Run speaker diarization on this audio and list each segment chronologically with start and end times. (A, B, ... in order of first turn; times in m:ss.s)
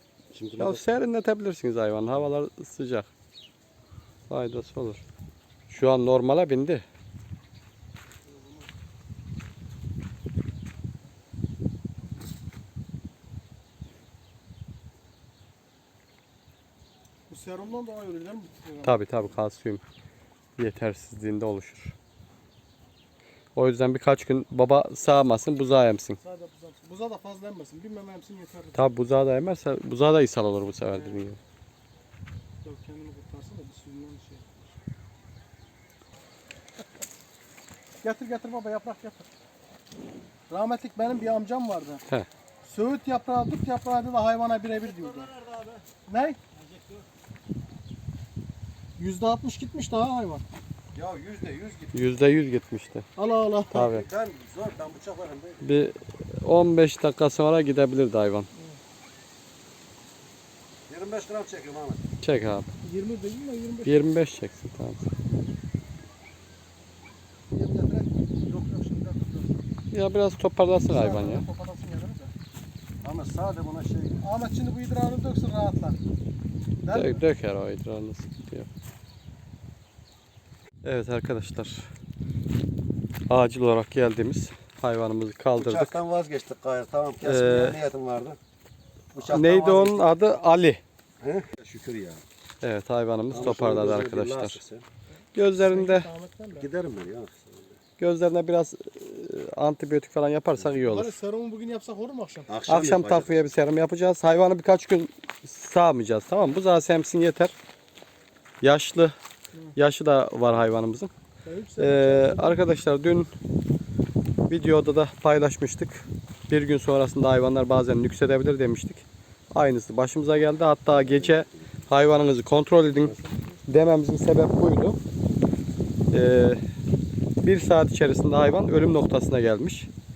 0:00.3-0:00.8 A
0:00.6-0:03.1 B
0:04.3-0:05.0 B
0:05.7-0:06.8 B
0:08.3-0:08.7 C
0:17.3-0:18.9 C
0:18.8-0:19.8 B
0:20.6-0:22.0 B
0:23.6-0:26.2 B
0:26.2-0:28.8 C
0:28.8-0:31.4 B
0:30.9-0:31.2 C
0:32.6-0:34.7 C
0:38.0-0:39.3 C
0:40.5-0:42.0 C
0:42.6-0:45.3 C
0:44.6-0:45.9 A
0:46.1-0:46.4 C
0:46.5-0:47.1 A
0:49.0-0:50.4 C
0:50.9-0:52.0 A
0:51.9-0:53.1 B
0:53.2-0:53.8 C
0:53.7-0:54.1 B
0:53.7-0:55.7 A
0:55.6-0:58.5 B
1:00.9-1:02.0 A
1:02.2-1:02.7 B
1:02.8-1:04.0 C
1:03.8-1:05.1 B
1:07.5-1:09.5 C
1:09.9-1:11.4 B
1:10.9-1:12.3 C
1:13.0-1:14.2 A
1:14.2-1:16.0 C
1:16.8-1:17.2 C
1:16.9-1:18.7 B
1:20.8-1:21.9 B
1:23.3-1:26.0 B
1:25.6-1:28.4 A
1:27.2-1:27.8 B
1:29.1-1:30.0 A
1:29.3-1:30.8 B
1:31.2-1:32.2 A
1:32.6-1:34.6 B
1:33.3-1:34.8 A
1:35.4-1:36.1 B
1:35.5-1:36.7 C
1:36.5-1:37.8 A
1:38.0-1:41.2 B
1:40.8-1:42.5 C
1:42.5-1:43.5 A
1:42.7-1:47.5 B
1:48.6-1:49.2 B
1:49.8-1:51.1 B
1:51.4-1:52.6 C
1:51.8-1:53.3 B
1:54.5-2:03.2 B
2:00.9-2:01.9 A
2:03.0-2:03.6 C
2:03.7-2:05.0 B
2:06.1-2:06.6 B
2:07.4-2:09.9 B